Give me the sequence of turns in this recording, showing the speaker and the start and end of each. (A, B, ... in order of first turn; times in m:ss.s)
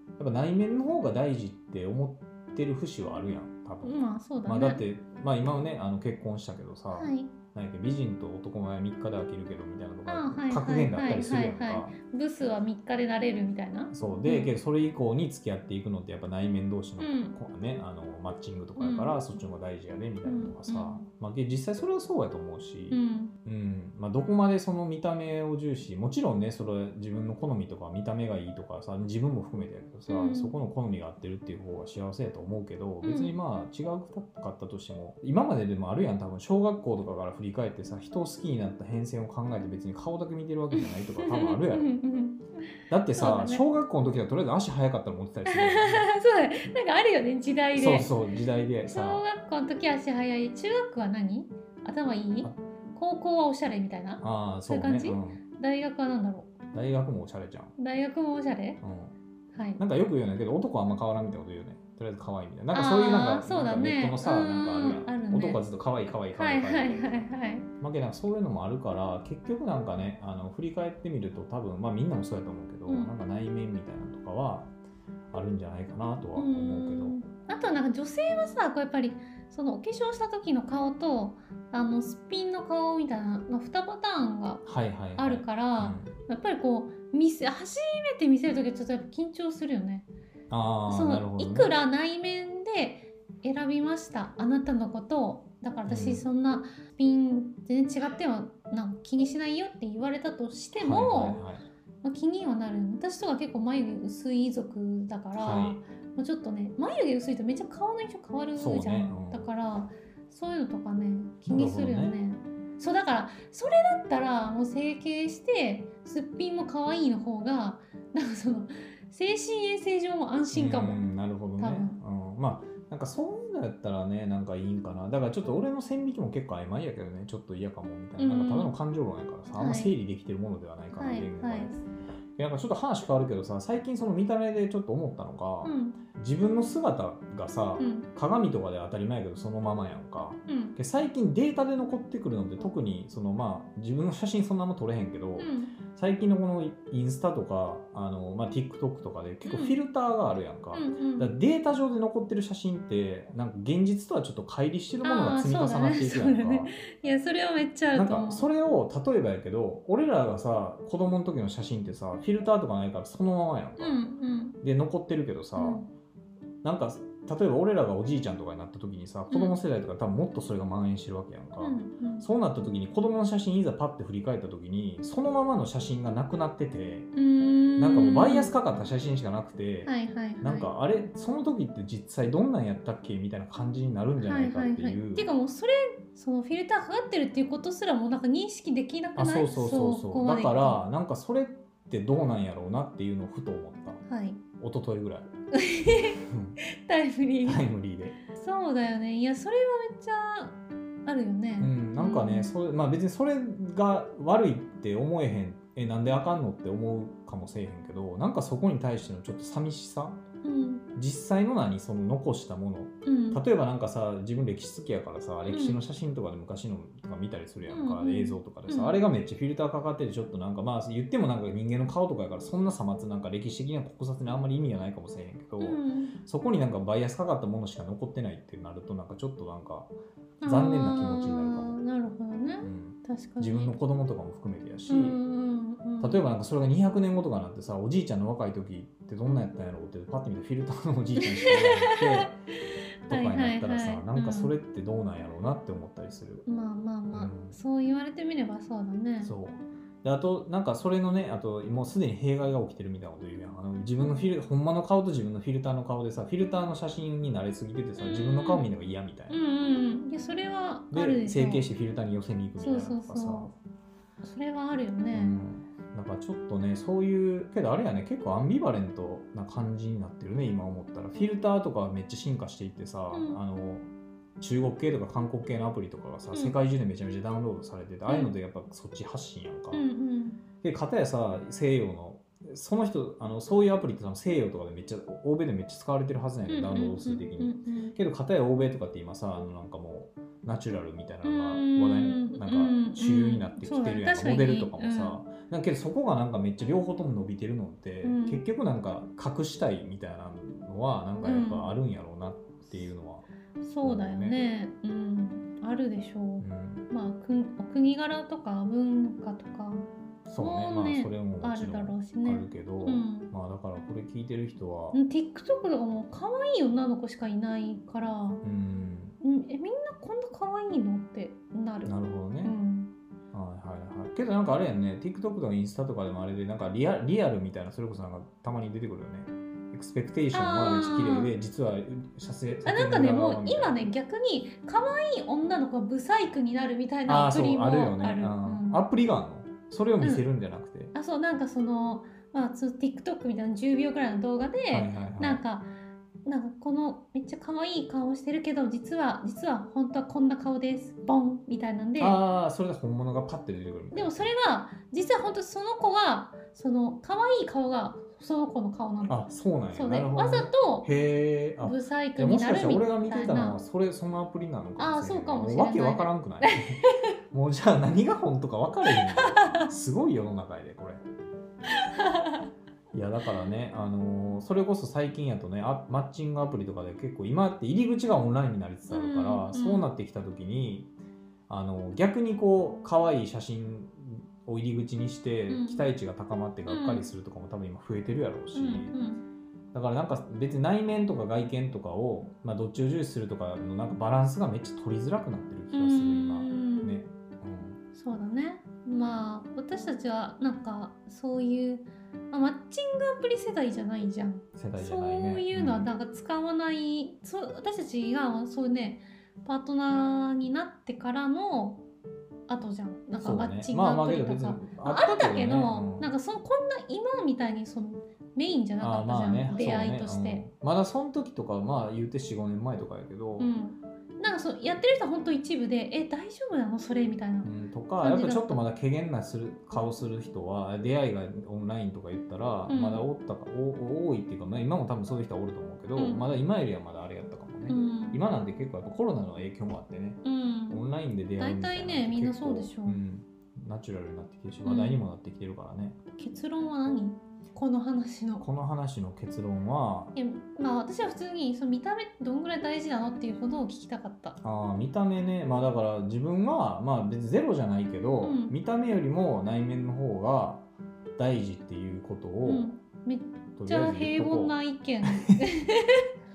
0:00.2-0:12.0 A
0:03.8-0:04.8 B
0:06.9-0:07.3 B
0:10.1-0:14.5 B
0:13.9-0:41.9 A
0:17.0-0:17.4 B
0:18.8-0:19.2 B
0:20.2-0:21.0 B
0:22.9-0:23.3 B
0:30.1-0:30.5 B
0:33.0-0:33.4 B
0:40.7-0:42.5 B
0:42.9-0:46.1 A
0:43.2-0:43.6 B
0:45.5-0:48.1 B
0:47.8-0:49.2 A
0:48.9-0:56.5 B
0:54.2-0:55.4 A
0:56.7-0:57.7 A
0:57.8-0:58.8 B
0:58.8-0:59.2 A
0:59.5-0:59.8 B
0:59.8-1:07.3 A
1:02.7-1:05.6 B
1:06.3-1:07.7 B
1:07.8-1:14.7 A
1:12.9-1:13.1 B
1:15.3-1:17.2 A
1:16.4-1:24.6 B
1:24.6-1:26.1 A
1:25.2-1:30.1 B
1:30.5-1:31.7 A
1:30.9-1:41.4 B
1:35.9-1:36.2 A
1:40.8-1:41.6 A
1:42.0-2:01.0 B
1:45.3-1:45.8 A
1:48.6-1:49.5 A
1:51.5-1:52.2 A
2:00.5-2:11.8 A
2:01.6-2:02.0 B
2:08.2-2:08.7 B
2:09.6-2:09.9 B
2:11.0-2:11.8 B
2:12.4-2:36.7 A
2:15.6-2:16.0 B
2:17.8-2:18.1 B
2:20.5-2:20.8 B
2:25.4-2:25.8 B
2:29.4-2:29.8 B
2:30.7-2:31.3 B
2:35.0-2:38.5 B
2:37.9-2:44.0 A
2:43.8-2:44.6 B
2:44.6-2:45.8 A
2:45.6-2:45.9 B
2:46.6-2:57.1 A
2:49.3-2:49.6 B
2:51.6-2:52.3 B
2:57.1-2:58.5 B
2:57.8-3:05.3 A
2:59.8-3:00.7 B
3:04.2-3:10.8 B
3:09.2-3:14.0 A
3:14.1-3:14.4 B
3:14.6-3:15.3 A
3:15.5-3:17.6 B
3:16.2-3:16.6 A
3:17.4-3:18.2 A
3:18.4-3:22.5 B
3:21.6-3:30.2 A
3:30.4-3:30.8 B
3:31.0-3:49.9 A
3:33.0-3:33.4 B
3:35.5-3:35.8 B
3:37.7-3:39.0 B
3:45.6-3:46.2 B
3:50.4-3:53.7 B
3:50.4-3:51.8 A
3:52.6-3:55.2 A
3:54.9-3:56.2 B
3:56.0-4:02.4 A
4:01.2-4:02.3 B
4:03.1-4:04.5 B
4:03.1-4:06.5 A
4:06.5-4:09.3 B
4:07.1-4:07.6 A
4:09.2-4:19.4 A
4:18.0-4:18.7 B
4:19.3-4:21.7 B
4:20.9-4:23.5 A
4:22.6-4:23.5 B
4:24.2-4:25.4 B
4:25.1-4:33.9 A
4:33.1-4:33.4 B
4:34.4-4:39.9 A
4:38.1-4:38.3 B
4:39.7-4:40.4 B
4:40.6-5:03.3 A
4:46.5-4:48.0 B
4:51.2-4:55.2 B
4:58.0-4:58.4 B
5:01.2-5:01.7 B
5:03.6-5:13.3 B
5:03.8-5:04.4 A
5:06.4-5:06.9 A
5:10.3-5:15.0 A
5:14.9-5:18.4 B
5:18.4-5:19.2 A
5:19.2-5:22.9 B
5:21.8-5:22.6 A
5:23.3-5:33.8 A
5:30.3-5:31.3 B
5:32.6-5:38.8 B
5:37.1-5:40.9 A
5:40.0-5:40.2 B
5:40.9-5:45.7 B
5:44.7-5:45.4 A
5:46.2-5:52.2 B
5:52.0-5:54.3 A
5:53.9-5:59.2 B
5:59.1-6:11.0 A
5:59.7-6:00.9 B
6:01.6-6:03.6 B
6:04.8-6:06.9 B
6:08.9-6:09.6 B
6:11.7-6:12.5 B
6:12.9-6:20.9 A
6:18.9-6:19.9 B
6:21.5-6:28.9 A
6:25.5-6:25.9 B
6:26.7-6:27.1 B
6:28.5-6:29.2 B
6:29.7-6:37.8 A
6:35.7-6:37.0 B
6:37.9-6:51.8 B
6:44.6-6:45.9 A
6:52.5-7:00.4 B
6:53.2-6:56.1 A
6:58.8-7:03.5 A
7:03.4-7:08.6 B
7:07.4-7:26.0 A
7:12.7-7:13.1 B
7:16.0-7:16.2 B
7:17.7-7:18.2 B
7:20.2-7:20.8 B
7:21.4-7:23.0 B
7:24.6-7:25.0 B
7:26.2-7:28.5 B
7:28.4-7:30.2 A
7:30.2-7:34.4 B
7:34.4-7:40.6 A
7:38.2-7:38.5 B
7:41.2-7:42.7 A
7:42.4-7:46.0 B
7:43.6-7:45.4 A